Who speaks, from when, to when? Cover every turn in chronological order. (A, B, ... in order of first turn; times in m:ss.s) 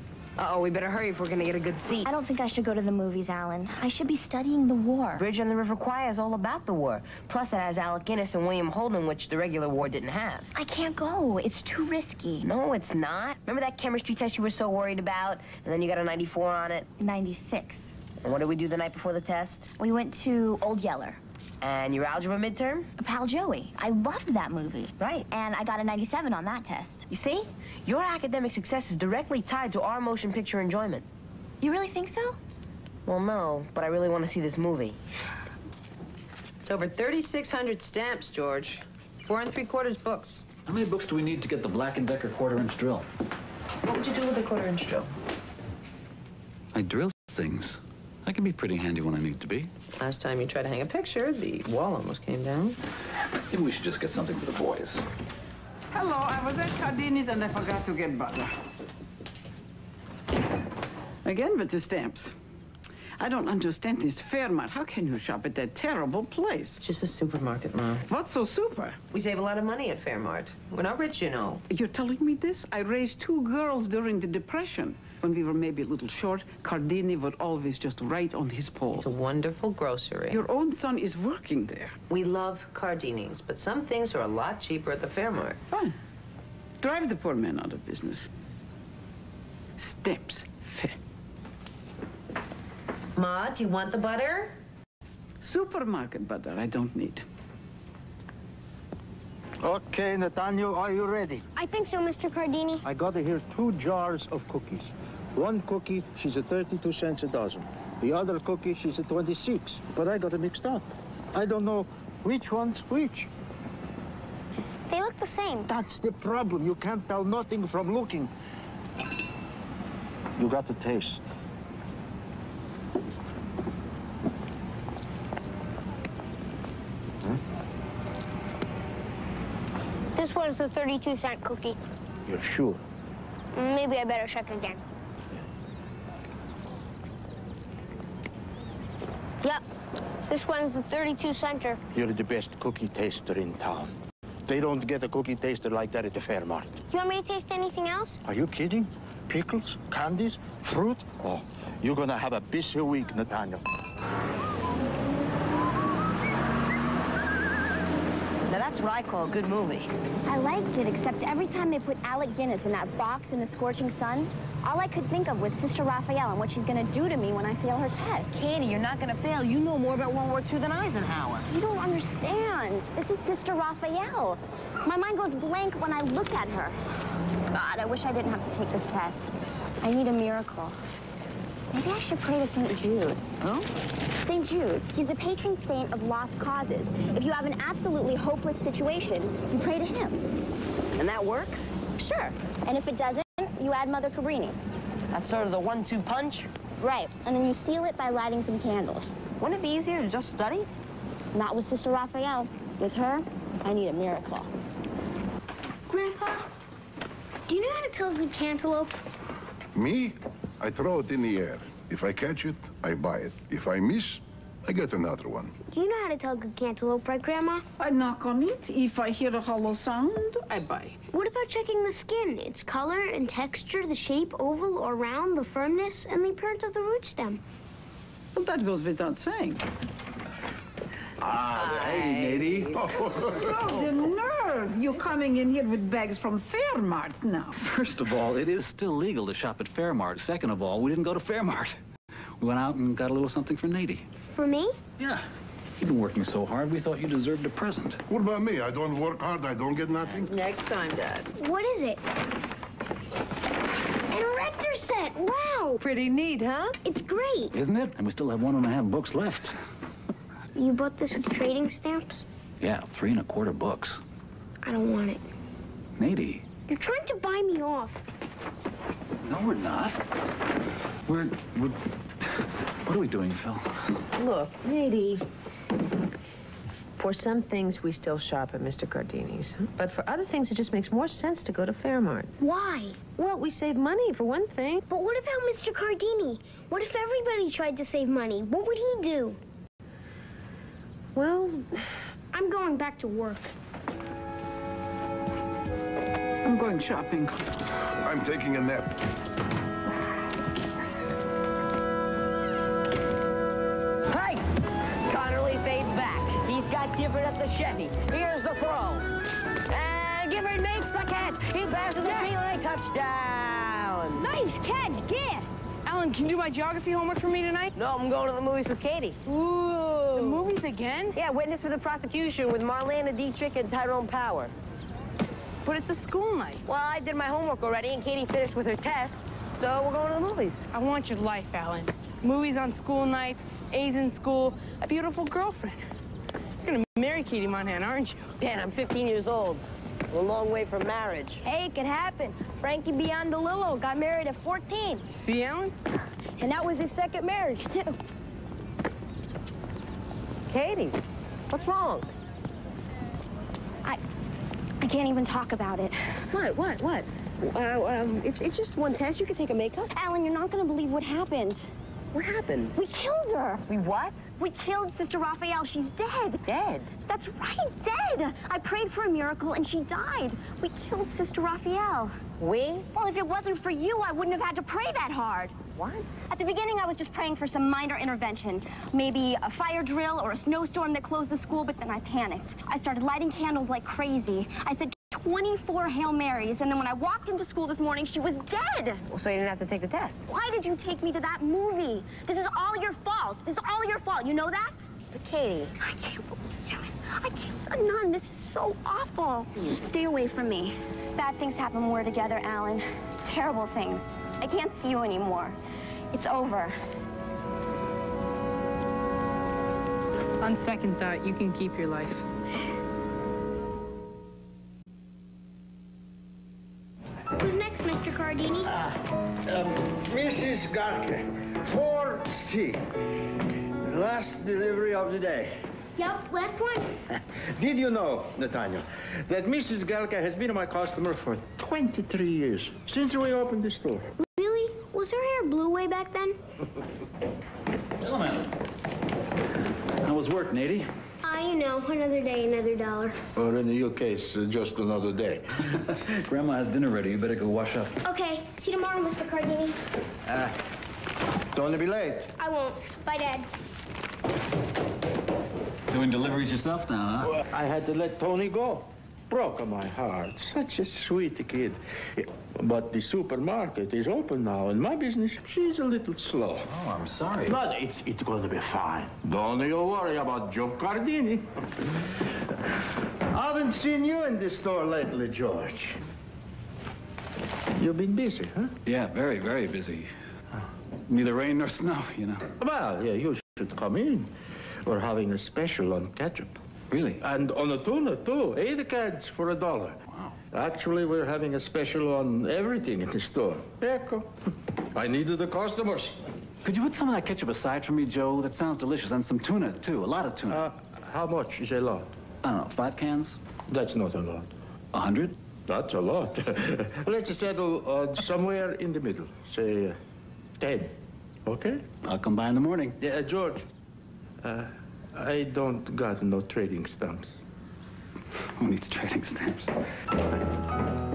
0:00.4-0:02.1 A
0:02.0-0:05.2 B
0:05.2-0:10.5 A
0:10.5-0:12.5 B
0:12.4-0:16.9 A
0:17.0-0:17.9 B
0:18.2-0:19.7 A
0:19.8-0:21.2 B
0:21.6-0:22.9 A
0:23.0-0:27.1 B
0:25.0-0:25.3 A
0:27.1-0:31.0 A
0:31.6-0:32.4 B
0:33.0-0:35.0 A
0:36.6-0:40.4 C
0:40.6-0:43.0 D
0:43.8-0:45.1 C
0:46.7-0:49.7 D
0:50.0-0:52.8 C
0:53.5-0:55.0 D
0:55.9-0:58.5 E
1:01.2-1:02.3 E
1:03.2-1:06.8 E
1:06.8-1:08.0 C
1:08.0-1:09.0 E
1:09.1-1:11.6 C
1:11.7-1:19.1 E
1:18.9-1:20.4 C
1:20.3-1:22.0 E
1:22.1-1:25.6 C
1:26.8-1:28.3 E
1:29.8-1:31.0 E
1:33.2-1:34.6 C
1:35.4-1:37.2 E
1:39.6-1:41.4 F
1:41.5-1:42.8 G
1:42.8-1:53.3 F
1:54.9-1:55.6 G
1:55.7-1:58.3 F
2:00.4-2:01.3 F
2:10.2-2:11.8 G
2:12.2-2:12.8 F
2:13.5-2:14.8 G
2:20.3-2:21.8 G
2:21.9-2:23.9 F
2:24.5-2:26.8 F
2:26.9-2:28.2 G
2:28.2-2:33.6 F
2:38.5-2:39.9 A
2:40.2-2:48.4 B
2:48.3-2:51.5 A
2:51.5-2:56.8 B
2:57.5-3:00.8 B
3:01.7-3:03.2 B
3:04.2-3:10.2 B
3:10.9-3:11.8 A
3:12.0-3:14.6 B
3:15.1-3:16.5 A
3:16.8-3:19.1 B
3:19.4-3:20.7 A
3:21.3-3:24.5 B
3:27.5-3:29.0 G
3:29.7-3:35.6 H
3:35.7-3:37.6 G
3:37.8-3:41.0 E
3:41.1-3:47.4 G
3:48.3-3:49.6 E
3:51.2-3:52.8 F
3:51.6-3:52.4 C
3:51.9-3:52.5 D
3:52.8-3:53.5 H
3:53.1-3:57.7 E
3:57.6-4:01.8 D
4:02.4-4:04.0 D
4:04.3-4:04.8 G
4:05.8-4:08.0 D
4:08.1-4:10.3 H
4:10.2-4:11.3 C
4:11.3-4:12.0 G
4:14.1-4:15.8 G
4:15.8-4:16.8 C
4:16.8-4:17.5 G
4:17.5-4:19.5 D
4:20.5-4:22.2 G
4:22.6-4:24.0 D
4:24.6-4:25.2 G
4:26.0-4:26.4 D
4:26.7-4:28.0 G
4:29.2-4:30.0 D
4:31.0-4:31.8 D
4:32.8-4:33.7 D
4:34.1-4:35.2 C
4:37.0-4:42.3 C
4:42.4-4:43.1 G
4:43.1-4:44.8 C
4:44.9-4:49.4 G
4:51.2-4:51.7 C
4:52.3-4:53.5 G
4:56.4-4:57.6 E
4:58.0-4:59.0 H
5:04.1-5:04.5 A
5:05.1-5:09.1 A
5:09.7-5:14.3 A
5:14.5-5:15.2 G
5:15.9-5:17.7 I
5:17.7-5:20.5 A
5:20.4-5:21.1 I
5:21.1-5:24.5 A
5:25.8-5:26.6 I
5:26.6-5:30.7 A
5:30.7-5:34.6 I
5:35.2-5:35.7 I
5:36.9-5:38.1 I
5:38.3-5:41.4 A
5:41.4-5:45.0 B
5:47.6-5:47.9 B
5:50.5-5:51.0 A
5:51.5-5:52.1 A
5:54.8-5:56.2 B
5:56.3-5:59.9 A
5:59.9-6:01.7 B
6:02.1-6:02.7 A
6:02.8-6:03.6 B
6:03.7-6:04.3 A
6:04.4-6:06.4 B
6:06.4-6:06.9 A
6:07.1-6:12.2 B
6:12.4-6:12.9 A
6:12.9-6:15.6 B
6:15.7-6:16.2 A
6:16.3-6:29.0 B
6:29.1-6:30.3 A
6:30.3-6:34.9 B
6:35.1-6:35.7 A
6:35.8-6:45.6 B
6:46.1-6:46.8 B
6:50.4-6:52.2 I
6:57.4-6:58.7 G
6:58.7-7:02.8 F
7:03.8-7:05.6 F
7:06.0-7:06.9 G
7:07.1-7:14.1 F
7:14.2-7:16.4 G
7:18.0-7:18.5 D
7:20.0-7:20.9 D
7:21.2-7:23.2 G
7:23.4-7:25.6 F
7:25.7-7:27.9 D
7:28.0-7:29.8 G
7:30.3-7:30.5 F
7:31.5-7:32.3 F
7:32.4-7:33.5 G
7:35.9-7:37.3 D
7:37.3-7:46.7 F
7:46.7-7:47.6 D
7:47.4-7:51.4 F
7:53.3-7:56.0 F
7:57.8-7:58.7 F
7:58.8-8:00.1 D
8:01.1-8:02.4 D
8:02.6-8:04.3 F
8:04.8-8:06.6 F
8:06.9-8:07.2 D
8:07.2-8:10.0 F
8:10.5-8:14.3 F
8:14.9-8:16.2 F
8:16.6-8:20.6 D
8:20.5-8:22.1 F
8:22.4-8:23.4 D
8:23.7-8:24.5 F
8:24.9-8:25.3 D
8:25.7-8:30.0 F
8:30.6-8:30.9 F
8:31.4-8:31.8 F
8:32.0-8:33.0 D
8:33.0-8:33.6 F
8:34.4-8:37.3 F
8:38.6-8:39.7 D